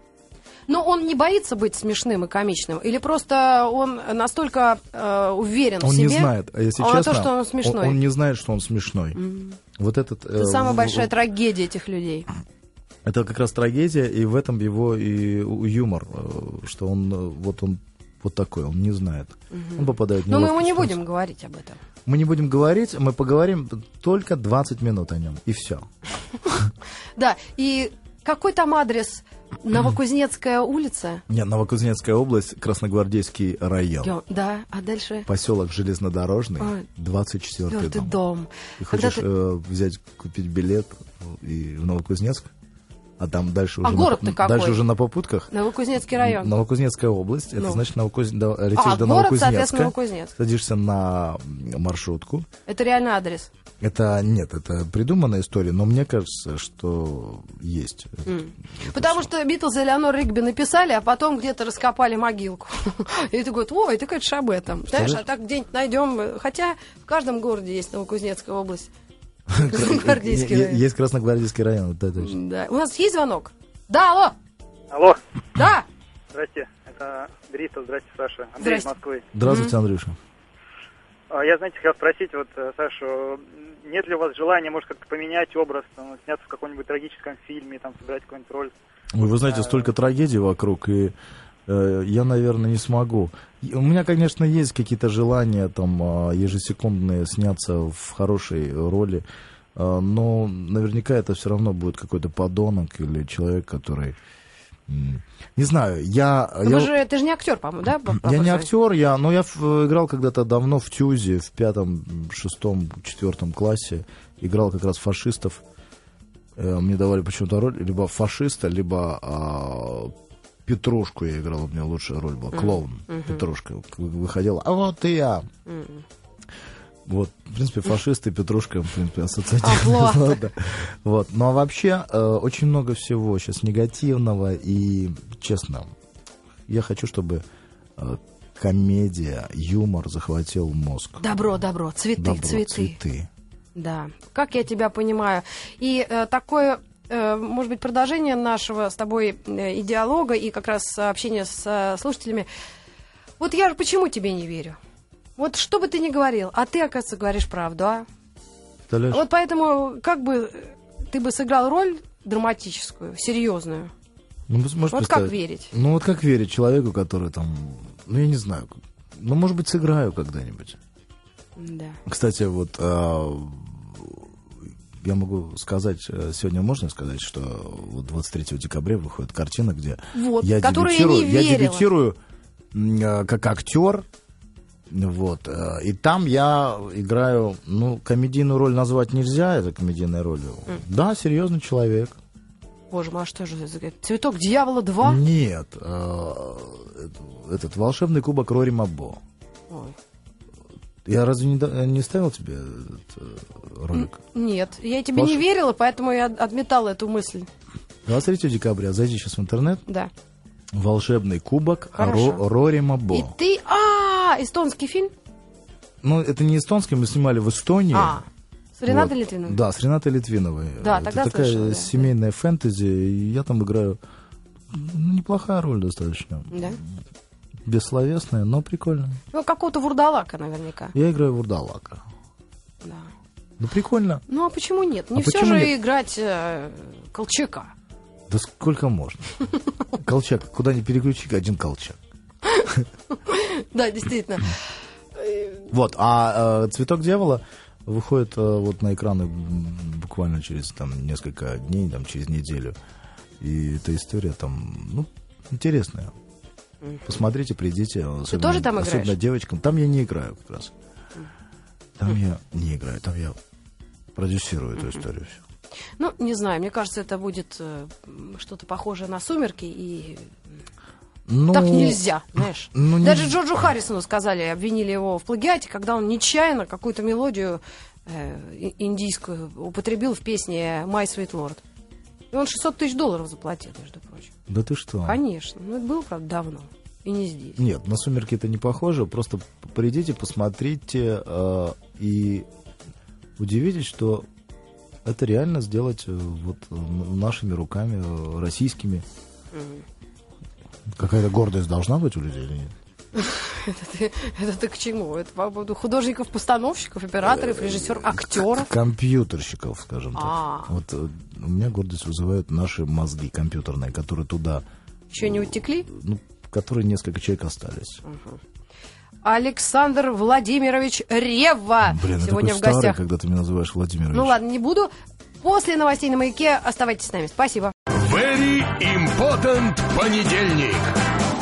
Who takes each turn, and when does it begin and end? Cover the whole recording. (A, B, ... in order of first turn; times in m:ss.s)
0:00.7-0:08.0 A
0:05.8-0:09.2 B
0:09.1-0:09.6 A
0:09.7-0:11.1 B
0:10.4-0:12.3 A
0:13.0-0:21.0 B
0:19.5-0:21.8 A
0:22.0-0:25.9 B
0:26.4-0:26.7 B
0:27.2-0:31.2 A
0:31.3-0:34.1 B
0:34.0-0:35.3 A
0:35.3-0:38.2 B
0:36.6-0:36.8 A
0:37.6-0:39.2 A
0:38.8-0:42.5 B
0:43.2-0:45.5 B
0:43.8-0:44.8 A
0:45.5-0:46.5 A
0:46.1-0:52.5 B
0:47.6-0:47.8 A
0:48.7-0:50.3 A
0:52.7-0:53.5 A
0:53.8-0:59.3 B
0:58.2-1:08.9 A
1:04.9-1:05.2 B
1:09.5-1:12.3 B
1:09.6-1:10.8 A
1:12.2-1:14.3 A
1:14.9-1:15.2 C
1:15.6-1:15.8 A
1:16.3-1:19.2 C
1:18.6-1:18.9 A
1:19.3-1:20.2 B
1:19.4-1:19.7 A
1:21.3-1:28.7 C
1:29.1-1:31.1 B
1:29.4-1:29.8 C
1:31.7-1:44.2 B
1:44.9-1:46.9 B
1:46.6-1:48.7 A
1:48.1-1:55.6 B
1:56.6-2:00.1 B
2:00.6-2:05.5 B
2:02.5-2:03.4 A
2:05.6-2:06.0 A
2:07.0-2:15.9 B
2:09.6-2:10.4 A
2:16.7-2:17.4 B
2:18.0-2:21.4 B
2:21.2-2:23.0 A
2:22.2-2:23.3 B
2:23.7-2:32.5 A
2:33.4-2:34.8 A
2:35.4-2:38.0 A
2:38.9-2:39.2 B
2:39.1-2:43.9 A
2:44.5-2:50.8 B
2:44.9-2:45.7 A
2:51.6-2:52.0 A
2:52.0-2:54.3 B
2:55.0-3:02.2 B
3:00.1-3:01.8 A
3:02.7-3:04.0 B
3:04.9-3:12.2 B
3:12.9-3:15.2 A
3:15.0-3:19.2 B
3:19.7-3:20.0 A
3:21.0-3:24.2 B
3:23.9-3:27.5 A
3:25.1-3:25.4 B
3:28.0-3:29.8 B
3:30.7-3:33.3 B
3:32.0-3:32.4 A
3:33.1-3:35.1 A
3:36.0-3:38.2 B
3:37.9-3:38.3 A
3:38.8-3:39.6 A
3:38.9-3:44.0 B
3:40.8-3:42.1 A
3:44.7-3:46.9 B
3:46.5-3:46.8 A
3:47.6-3:49.2 B
3:49.3-3:50.9 A
3:50.9-3:52.0 B
3:52.8-3:53.1 A
3:53.6-3:54.2 B
3:54.3-3:57.7 A
3:55.1-3:55.7 B
3:58.3-3:59.4 B
3:59.9-4:02.0 B
4:02.5-4:04.6 A
4:05.2-4:05.7 A
4:05.7-4:12.8 B
4:13.4-4:16.1 B
4:17.0-4:20.7 B
4:18.3-4:19.2 A
4:22.0-4:23.4 B
4:24.1-4:25.4 B
4:24.8-4:25.0 A
4:26.0-4:30.3 A
4:31.3-4:32.0 B
4:31.5-4:41.6 A
4:32.7-4:33.4 B
4:42.3-4:44.3 A
4:44.5-4:45.2 B
4:45.0-4:47.6 A
4:47.6-4:52.5 B
4:53.4-4:54.3 B
4:55.0-4:59.0 B
4:59.5-4:59.8 A
5:00.9-5:02.7 B
5:03.1-5:08.7 A
5:07.2-5:14.6 B
5:10.1-5:10.7 A
5:15.1-5:15.9 A
5:15.2-5:18.0 B
5:18.0-5:18.4 A
5:19.2-5:23.0 A
5:21.8-5:24.4 B
5:24.1-5:27.7 A
5:27.9-5:30.9 D